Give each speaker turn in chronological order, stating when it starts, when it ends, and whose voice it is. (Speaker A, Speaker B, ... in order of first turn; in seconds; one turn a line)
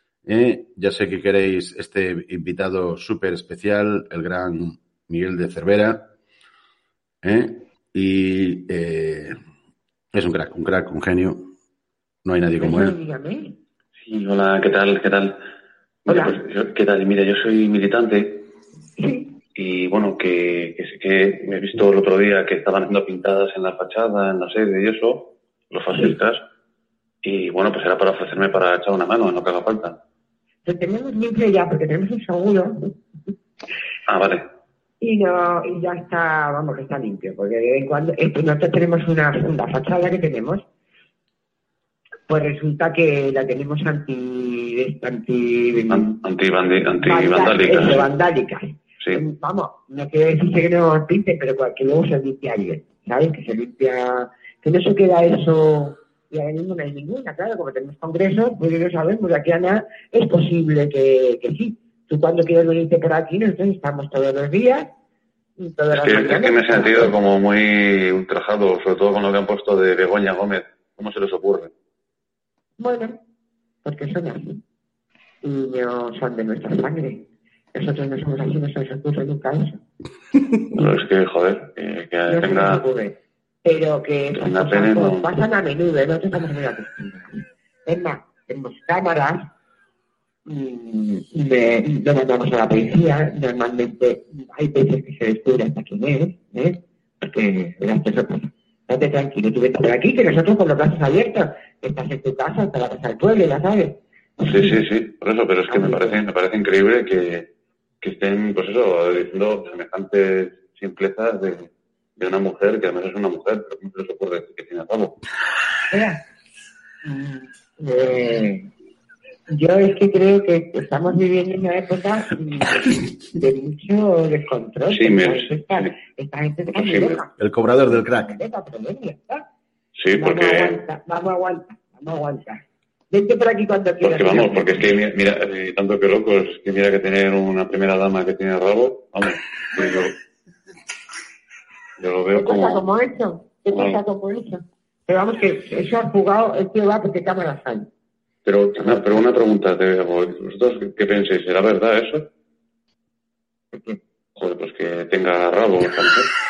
Speaker A: 0.2-6.1
Speaker A: 7.2-9.3
Speaker A: 10.1-11.5
Speaker A: 12.2-12.9
Speaker B: 12.6-13.6
Speaker C: 14.0-15.4
Speaker B: 16.1-16.4
Speaker C: 16.1-18.5
Speaker B: 19.0-19.4
Speaker C: 19.6-26.4
Speaker C: 27.2-29.9
Speaker B: 30.6-32.9
Speaker C: 34.1-34.4
Speaker B: 35.0-40.6
Speaker B: 42.3-46.0
Speaker C: 45.9-48.1
Speaker B: 47.0-64.9
Speaker B: 65.6-67.1
Speaker C: 65.9-71.7
Speaker B: 72.8-73.2
Speaker B: 73.8-74.6
Speaker B: 75.4-79.8
Speaker C: 80.8-82.8
Speaker B: 82.3-89.5
Speaker C: 84.3-85.3
Speaker B: 90.5-104.8
Speaker C: 104.4-107.5
Speaker B: 105.7-106.2
Speaker C: 108.0-115.2
Speaker B: 115.9-116.2
Speaker B: 117.0-118.7
Speaker B: 119.5-129.4
Speaker C: 124.9-125.9
Speaker C: 126.7-127.2
Speaker A: 127.4-128.3
Speaker C: 129.9-130.8
Speaker B: 130.1-134.9
Speaker C: 134.0-140.1
Speaker C: 142.0-142.8
Speaker B: 142.3-147.9
Speaker C: 148.4-152.2
Speaker B: 153.7-154.0
Speaker C: 154.4-156.3